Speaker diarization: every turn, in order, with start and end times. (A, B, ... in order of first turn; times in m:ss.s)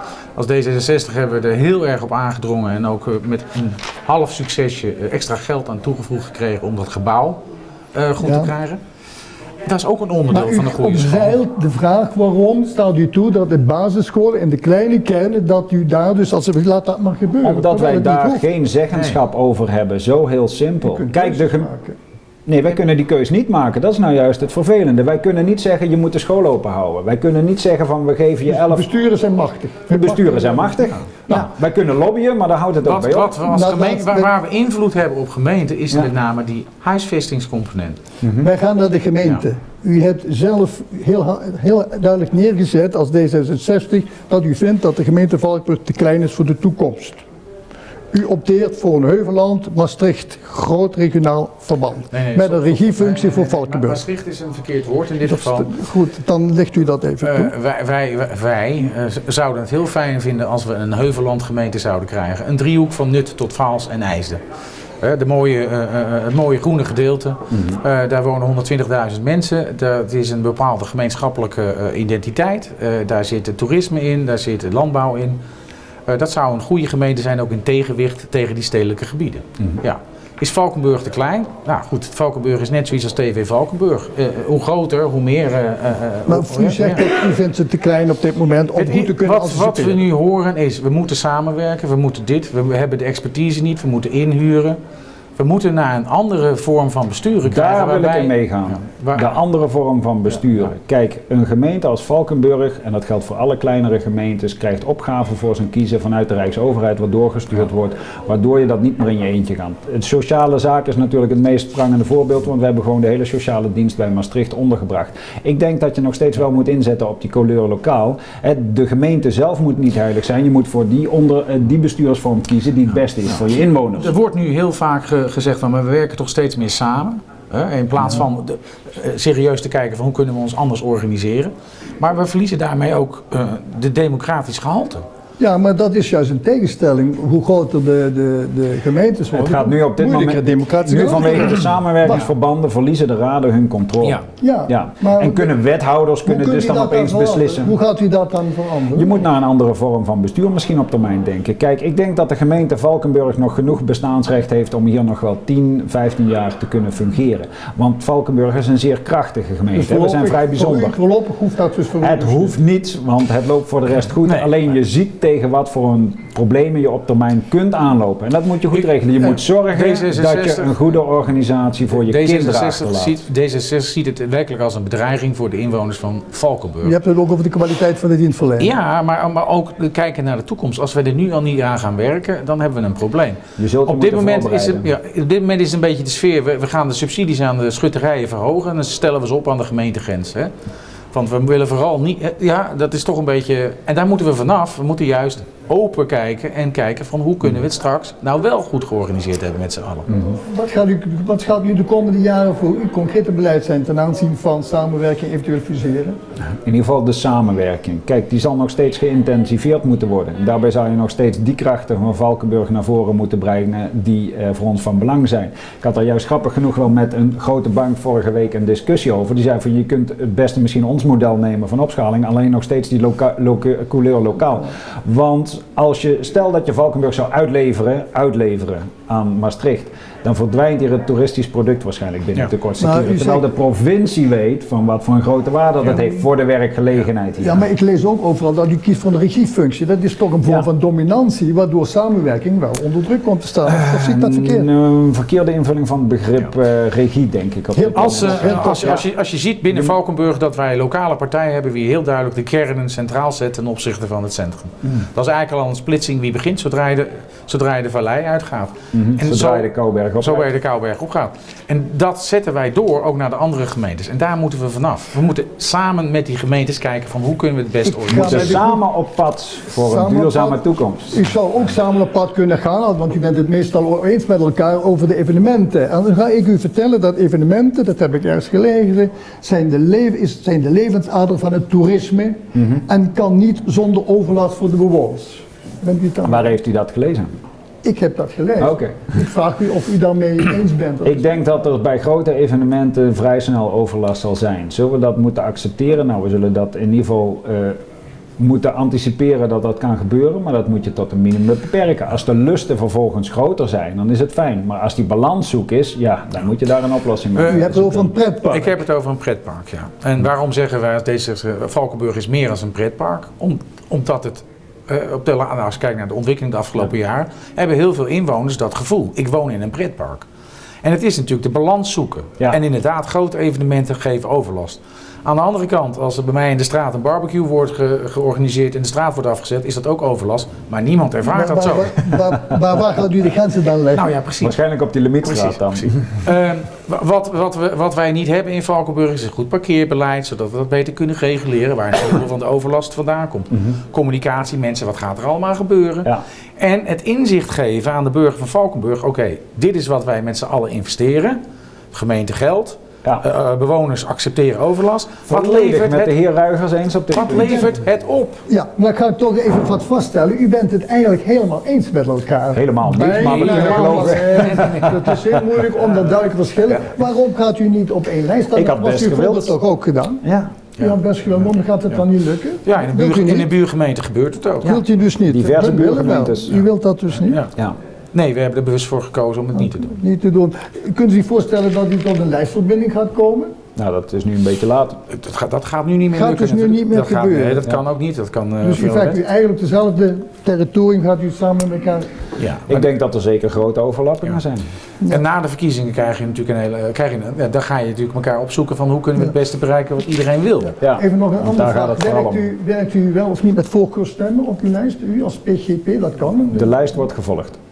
0:00.4-0:07.4 A
0:07.9-0:08.8 A
0:08.2-0:08.5 B
0:09.6-0:11.4 A
0:10.3-0:18.4 B
0:17.4-0:21.7 C
0:20.8-0:22.0 B
0:22.5-0:28.9 C
0:28.5-0:31.5 B
0:29.9-0:33.4 C
0:32.8-0:38.0 A
0:33.5-0:34.3 B
0:38.2-0:38.5 C
0:38.4-0:47.2 B
0:48.1-0:54.0 B
0:52.1-0:55.8 A
0:55.3-0:57.5 B
0:57.2-1:04.4 A
1:05.0-1:15.4 A
1:07.5-1:07.8 C
1:16.1-1:27.1 A
1:26.3-1:30.0 B
1:28.8-1:34.8 A
1:35.4-1:39.4 A
1:37.5-2:04.1 C
2:04.0-2:15.0 A
2:15.4-2:22.3 B
2:19.3-2:27.8 C
2:24.4-2:25.5 B
2:26.2-2:29.2 B
2:28.9-2:41.0 C
2:39.7-2:42.6 B
2:42.0-2:53.2 C
2:49.7-2:50.7 A
2:52.0-2:57.0 A
2:56.8-2:58.7 B
2:58.6-3:10.5 A
3:03.6-3:04.9 C
3:11.1-3:20.1 A
3:20.5-3:26.2 B
3:26.6-3:57.6 C
3:52.8-3:53.5 B
3:57.4-4:04.7 B
4:03.6-4:09.0 C
4:07.7-4:09.0 B
4:07.9-4:19.7 A
4:09.7-4:10.0 C
4:18.9-4:20.5 C
4:20.2-4:28.6 A
4:27.9-4:28.8 B
4:28.1-4:31.2 C
4:29.8-4:30.6 B
4:31.1-4:46.6 B
4:42.6-4:42.8 C
4:46.2-4:47.3 C
4:47.8-4:51.4 B
4:48.6-4:49.2 C
4:51.0-4:57.8 C
4:58.4-5:08.1 C
5:07.4-5:07.8 A
5:07.5-5:08.8 B
5:08.5-5:20.3 A
5:20.8-5:32.2 A
5:31.3-5:34.0 B
5:33.9-5:34.6 A
5:34.4-5:36.0 C
5:35.2-5:51.4 A
5:51.9-5:56.2 A
5:55.3-5:57.7 C
5:57.1-5:58.4 A
5:58.5-6:10.2 B
6:02.5-6:05.5 C
6:03.1-6:05.0 A
6:08.6-6:09.6 C
6:10.2-6:10.5 C
6:10.8-6:13.5 B
6:12.6-6:14.8 A
6:14.6-6:17.4 B
6:15.3-6:16.6 C
6:18.1-6:20.0 A
6:19.6-6:23.6 B
6:23.8-6:25.0 C
6:25.1-6:29.2 A
6:26.1-6:27.7 B
6:28.6-6:32.1 B
6:32.4-6:32.8 A
6:32.7-6:34.7 C
6:35.1-6:40.8 A
6:40.8-6:42.5 C
6:40.8-6:46.8 B
6:46.5-6:47.6 C